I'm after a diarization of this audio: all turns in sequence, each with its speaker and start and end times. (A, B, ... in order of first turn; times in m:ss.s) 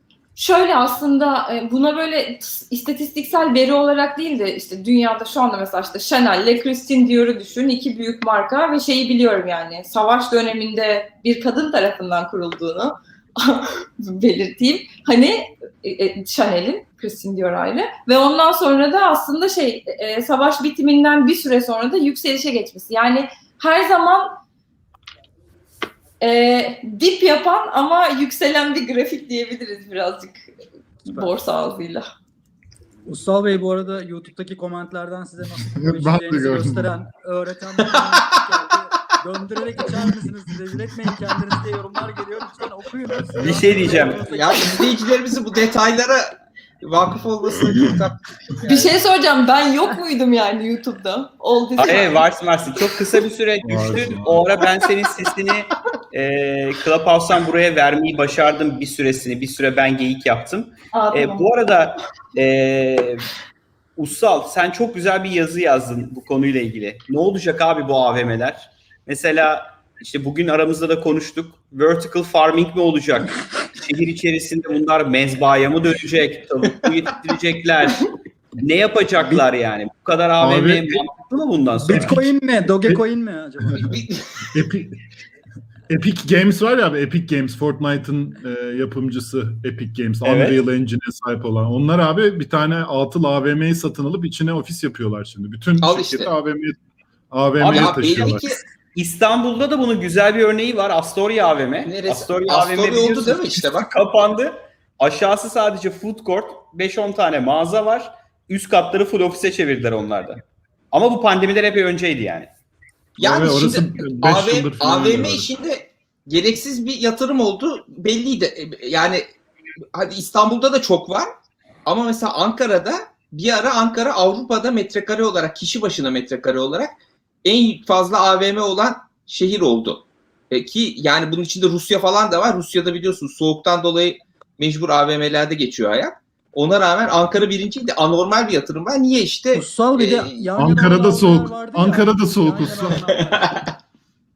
0:00.4-0:24.4 A
0:26.2-0:30.4 A
0:31.0-0:32.1 A
0:33.0-0:44.9 B
0:35.6-0:36.9 C
0:43.4-0:44.3 D
0:43.4-0:43.6 C
0:44.2-0:48.9 E
0:47.8-0:48.0 C
0:48.6-0:52.3 A
0:51.8-1:03.2 D
0:53.6-0:54.4 C
1:00.9-1:01.5 A
1:04.0-1:22.2 D
1:20.4-1:21.0 C
1:21.8-1:24.0 B
1:21.9-1:22.2 C
1:23.6-1:23.9 C
1:23.8-1:24.5 E
1:24.5-1:25.0 C
1:25.9-1:36.8 C
1:30.2-1:30.6 D
1:35.8-1:36.3 E
1:37.3-1:38.6 C
1:37.6-1:52.5 D
1:37.6-1:38.6 E
1:41.8-1:43.9 E
1:53.2-1:55.5 C
1:53.2-1:59.3 E
1:59.9-2:01.3 E
2:01.8-2:06.9 E
2:07.4-2:20.5 E
2:19.5-2:23.6 B
2:20.6-2:23.0 C
2:23.3-2:23.7 E